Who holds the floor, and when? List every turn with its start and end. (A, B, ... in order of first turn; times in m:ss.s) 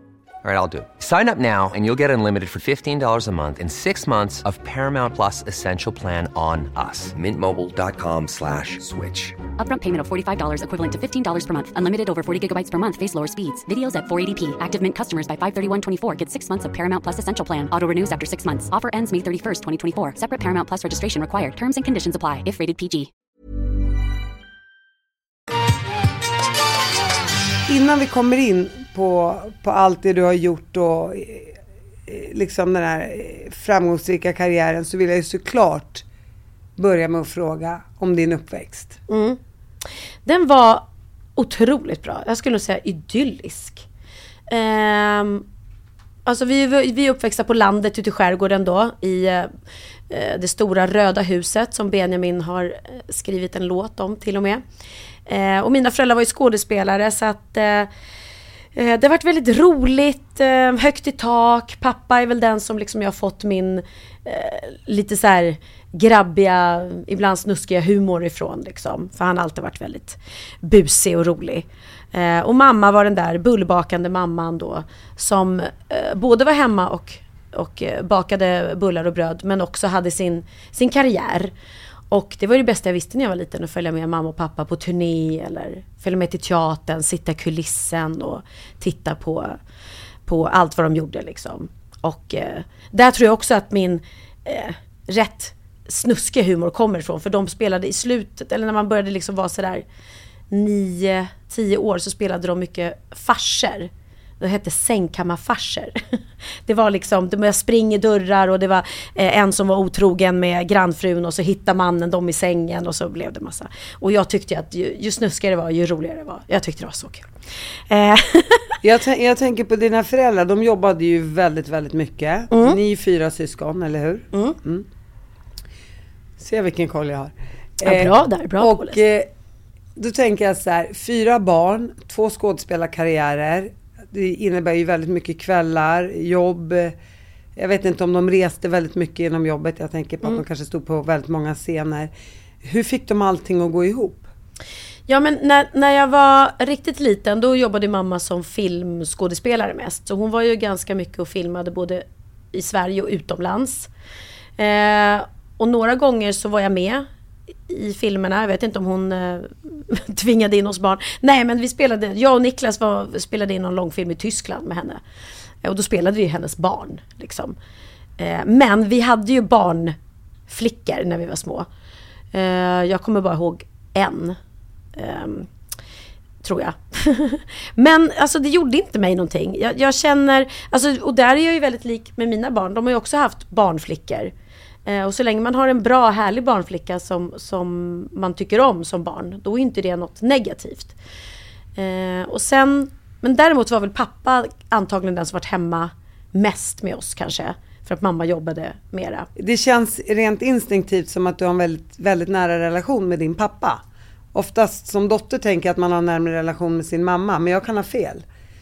0:00.4-0:09.4 A
0:09.6-0:23.1 B
0:27.7-0:36.0 C
0:36.8-0:39.0 C
0:39.1-0:39.4 D
0:40.2-0:40.8 D
0:41.4-0:43.8 D
0:44.5-0:45.4 D
0:46.2-0:49.5 D
0:50.1-0:54.6 D
0:55.2-0:57.9 D
0:58.7-1:21.5 D
1:22.1-1:29.6 D
1:30.2-1:39.8 D
1:40.5-1:46.0 D
1:46.7-1:57.3 D
1:57.9-1:58.7 D
1:58.8-2:04.8 C
2:02.5-2:02.8 D
2:06.4-2:09.3 C
2:07.8-2:09.0 D
2:10.0-2:16.9 C
2:17.6-2:22.1 C
2:22.6-2:24.3 C
2:25.1-2:33.9 D
2:34.6-2:37.1 D
2:37.7-2:45.0 D
2:45.6-2:47.6 D
2:48.2-2:50.0 D
2:50.5-2:51.7 D
2:52.3-2:54.4 D
2:55.0-2:55.5 D
2:56.4-3:04.3 D
3:04.8-3:10.9 D
3:11.8-3:19.3 D
3:19.4-3:23.8 C
3:24.3-3:28.2 C